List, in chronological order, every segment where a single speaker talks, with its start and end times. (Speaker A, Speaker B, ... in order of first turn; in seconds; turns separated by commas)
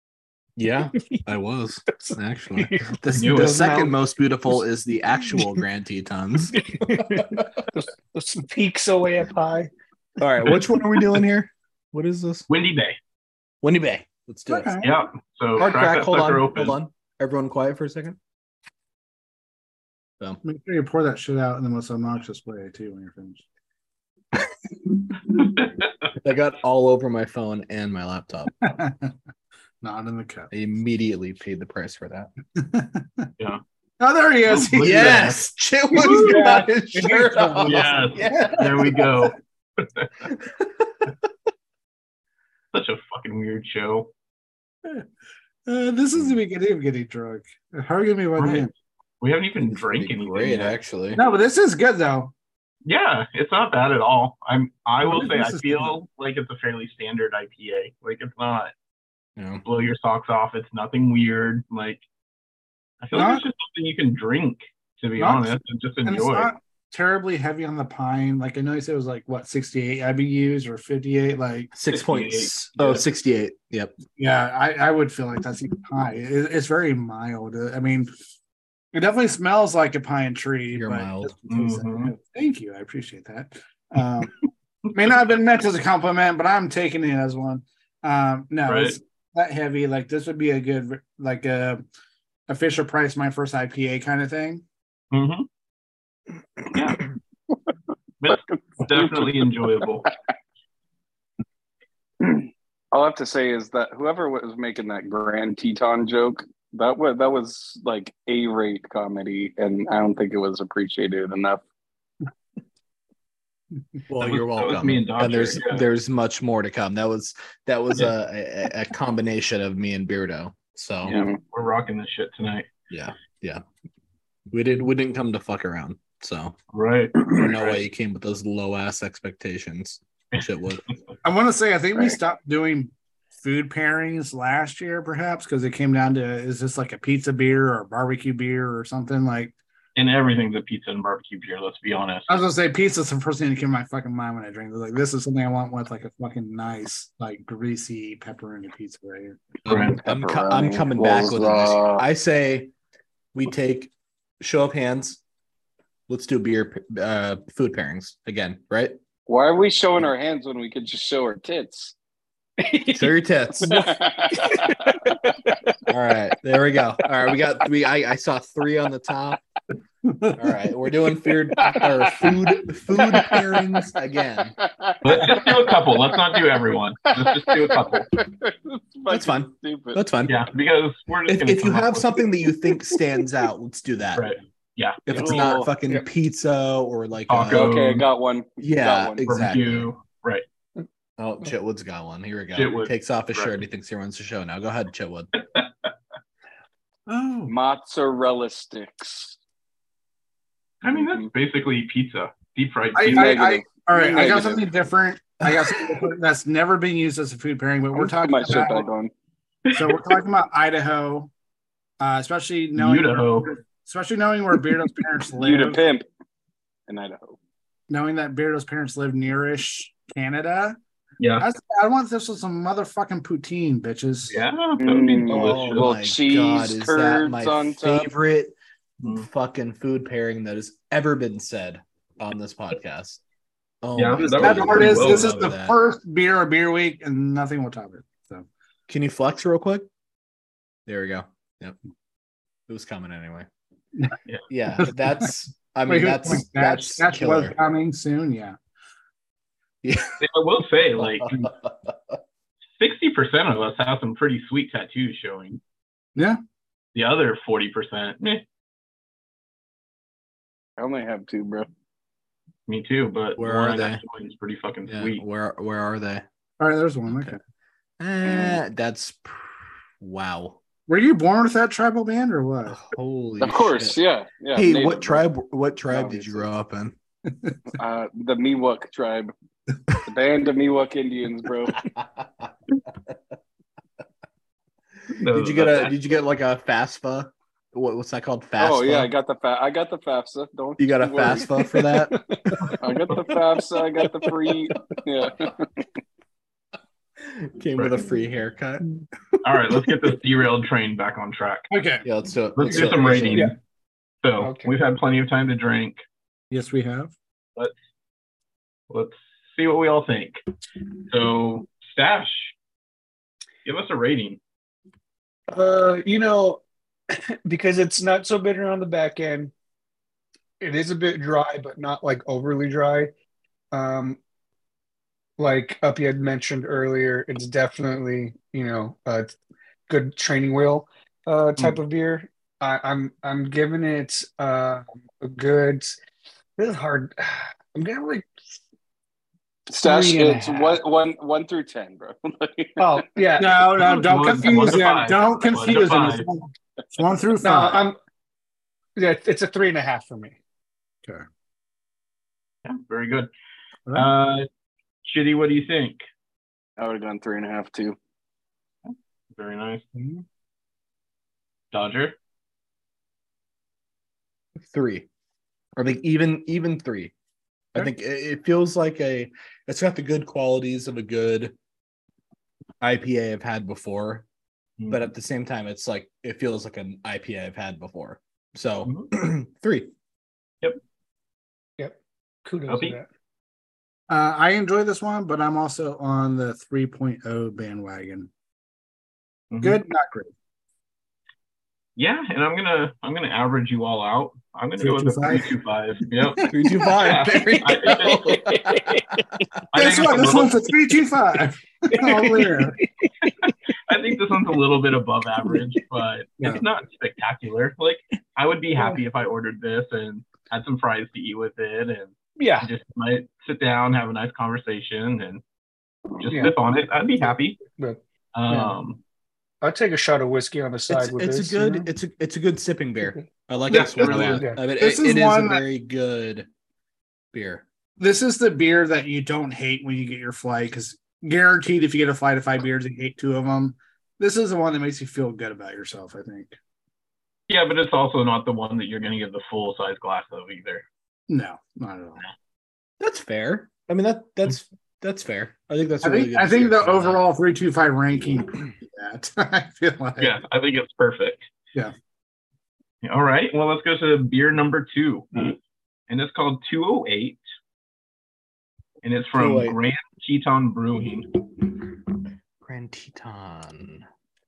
Speaker A: 0.6-7.2, Speaker B: 1.0-1.2, Speaker B: 2.0-3.9, Speaker C: 3.1-3.9, Speaker B: 6.5-9.7, Speaker A: 10.2-12.5, Speaker C: 12.5-13.0, Speaker A: 13.6-14.8, Speaker D: 14.5-14.9, Speaker C: 14.8-16.7, Speaker A: 15.6-18.2, Speaker D: 20.4-23.4, Speaker C: 25.3-26.1, Speaker A: 26.2-28.7, Speaker D: 28.6-29.1, Speaker D: 29.8-30.5, Speaker A: 30.5-32.3, Speaker D: 32.5-33.3, Speaker D: 34.0-39.3, Speaker C: 34.5-35.2, Speaker A: 34.8-38.8, Speaker C: 37.6-40.1, Speaker A: 40.2-41.3, Speaker C: 42.7-44.1, Speaker D: 45.6-48.7, Speaker C: 48.4-48.7, Speaker C: 49.2-50.7, Speaker A: 49.7-51.2, Speaker D: 51.1-52.3, Speaker C: 52.8-58.7, Speaker D: 55.0-55.9, Speaker A: 59.4-59.6, Speaker C: 59.6-62.0, Speaker C: 63.0-66.5, Speaker D: 63.1-63.4, Speaker D: 65.2-71.7, Speaker A: 71.7-74.0, Speaker C: 71.9-73.0, Speaker D: 74.2-78.1, Speaker D: 78.9-91.8, Speaker A: 80.8-81.3, Speaker C: 81.5-82.1, Speaker C: 88.7-89.0, Speaker D: 92.5-94.6, Speaker C: 95.1-95.5, Speaker C: 96.7-97.0, Speaker C: 98.2-100.1, Speaker E: 98.9-99.4, Speaker E: 102.2-111.6, Speaker A: 114.1-121.2, Speaker C: 114.2-115.8, Speaker E: 121.1-121.4, Speaker C: 121.1-122.7, Speaker A: 122.9-123.6, Speaker A: 124.5-126.6, Speaker C: 126.7-127.8, Speaker A: 127.3-130.8, Speaker C: 130.3-130.9, Speaker D: 131.2-139.5, Speaker C: 139.9-142.3, Speaker D: 142.3-149.4, Speaker A: 149.6-152.7, Speaker C: 149.7-150.0, Speaker E: 149.8-152.0, Speaker A: 153.3-155.2, Speaker A: 156.1-159.0, Speaker E: 159.3-161.9, Speaker B: 162.6-163.1, Speaker A: 162.9-163.9, Speaker B: 163.6-165.7, Speaker E: 163.7-165.0, Speaker A: 165.8-169.4, Speaker D: 170.0-170.5, Speaker A: 170.4-174.6, Speaker D: 171.6-172.4, Speaker D: 172.9-173.9, Speaker E: 174.6-176.4, Speaker C: 175.0-178.1, Speaker E: 177.1-180.0, Speaker A: 179.1-180.4, Speaker C: 180.3-182.2, Speaker A: 181.3-184.3, Speaker C: 184.2-185.4, Speaker A: 185.1-187.8, Speaker E: 185.1-185.7, Speaker C: 187.3-188.0, Speaker E: 187.5-189.2, Speaker A: 188.6-189.9, Speaker C: 189.2-190.4, Speaker A: 191.2-195.3, Speaker C: 192.5-193.6, Speaker C: 195.3-195.9, Speaker D: 197.1-197.5, Speaker E: 197.4-199.4, Speaker C: 200.8-203.4, Speaker E: 200.9-201.3, Speaker D: 202.9-208.9, Speaker E: 203.1-204.6, Speaker E: 207.9-209.1, Speaker C: 209.7-209.9, Speaker D: 209.7-211.3, Speaker D: 212.0-215.8, Speaker C: 212.8-213.5, Speaker E: 215.4-216.0, Speaker E: 216.9-217.4, Speaker D: 217.9-220.8, Speaker C: 221.2-221.5, Speaker D: 221.4-224.4, Speaker C: 224.3-225.9, Speaker E: 224.8-228.1, Speaker A: 225.3-233.2, Speaker C: 229.0-229.3, Speaker A: 233.8-235.7, Speaker C: 233.9-235.5, Speaker D: 234.2-238.5, Speaker A: 238.9-239.9, Speaker A: 240.8-241.8, Speaker A: 242.7-243.5, Speaker A: 244.5-247.6, Speaker D: 245.9-248.6, Speaker A: 249.8-250.2, Speaker C: 250.2-251.5, Speaker A: 251.0-252.2, Speaker C: 252.8-255.6, Speaker C: 256.9-258.4, Speaker E: 260.8-261.7, Speaker C: 262.7-265.2, Speaker A: 263.4-264.0, Speaker A: 264.9-266.2, Speaker D: 266.6-267.4, Speaker A: 267.1-267.4, Speaker A: 268.0-270.6, Speaker E: 268.3-268.6, Speaker D: 270.9-272.8, Speaker A: 272.7-274.0, Speaker E: 273.4-275.2, Speaker A: 274.5-276.9, Speaker E: 275.9-276.4, Speaker E: 277.8-279.3, Speaker E: 280.0-281.8, Speaker A: 281.8-282.5, Speaker C: 285.1-286.1, Speaker A: 285.3-289.1, Speaker E: 288.6-291.5, Speaker A: 290.8-292.7, Speaker B: 291.8-292.7, Speaker E: 292.8-295.8, Speaker A: 294.7-295.0, Speaker A: 297.2-299.9, Speaker C: 299.4-301.7, Speaker D: 301.7-302.0, Speaker A: 302.0-303.5, Speaker C: 302.6-303.6, Speaker C: 304.2-306.0, Speaker B: 304.4-304.7, Speaker D: 306.5-307.1, Speaker C: 308.9-310.4, Speaker C: 311.1-312.5, Speaker C: 313.6-314.4, Speaker B: 315.5-319.5, Speaker B: 320.6-323.1, Speaker B: 323.7-324.2, Speaker B: 325.4-329.3, Speaker B: 329.9-336.0, Speaker B: 336.6-338.3, Speaker E: 339.7-343.0, Speaker B: 339.8-340.8, Speaker B: 342.8-343.6, Speaker D: 343.4-347.8, Speaker C: 343.8-346.3, Speaker B: 347.4-348.0, Speaker B: 348.9-350.4, Speaker C: 352.6-353.3, Speaker C: 353.9-354.5, Speaker C: 355.0-356.0, Speaker E: 356.8-358.0, Speaker C: 358.9-359.8, Speaker D: 359.9-360.2, Speaker C: 361.7-362.1, Speaker A: 364.6-365.1, Speaker A: 365.8-367.1, Speaker A: 367.7-371.5, Speaker A: 372.8-374.2, Speaker C: 374.8-375.1, Speaker A: 374.9-379.9, Speaker C: 378.8-379.1, Speaker B: 381.8-383.1, Speaker C: 382.7-382.9, Speaker D: 384.1-388.3, Speaker C: 389.5-389.8, Speaker D: 389.6-390.3, Speaker C: 392.0-398.2, Speaker D: 394.8-395.5, Speaker A: 396.5-399.4, Speaker B: 398.2-399.4, Speaker C: 399.7-400.7, Speaker D: 399.7-402.8, Speaker B: 401.9-403.1, Speaker C: 403.2-415.4, Speaker B: 412.4-412.7, Speaker C: 416.2-417.6, Speaker B: 416.3-416.6, Speaker B: 417.7-418.7, Speaker C: 418.3-419.0, Speaker B: 419.6-421.9, Speaker A: 420.9-426.5, Speaker C: 423.7-424.4, Speaker D: 423.7-425.6, Speaker B: 424.1-424.6, Speaker A: 427.3-427.6, Speaker D: 428.0-436.5, Speaker C: 437.5-440.8, Speaker D: 441.3-442.2, Speaker A: 443.0-447.2, Speaker D: 446.0-450.3, Speaker C: 450.2-451.5, Speaker C: 453.0-455.6, Speaker C: 456.1-457.4, Speaker C: 459.0-461.3, Speaker A: 459.4-459.8, Speaker A: 462.6-464.1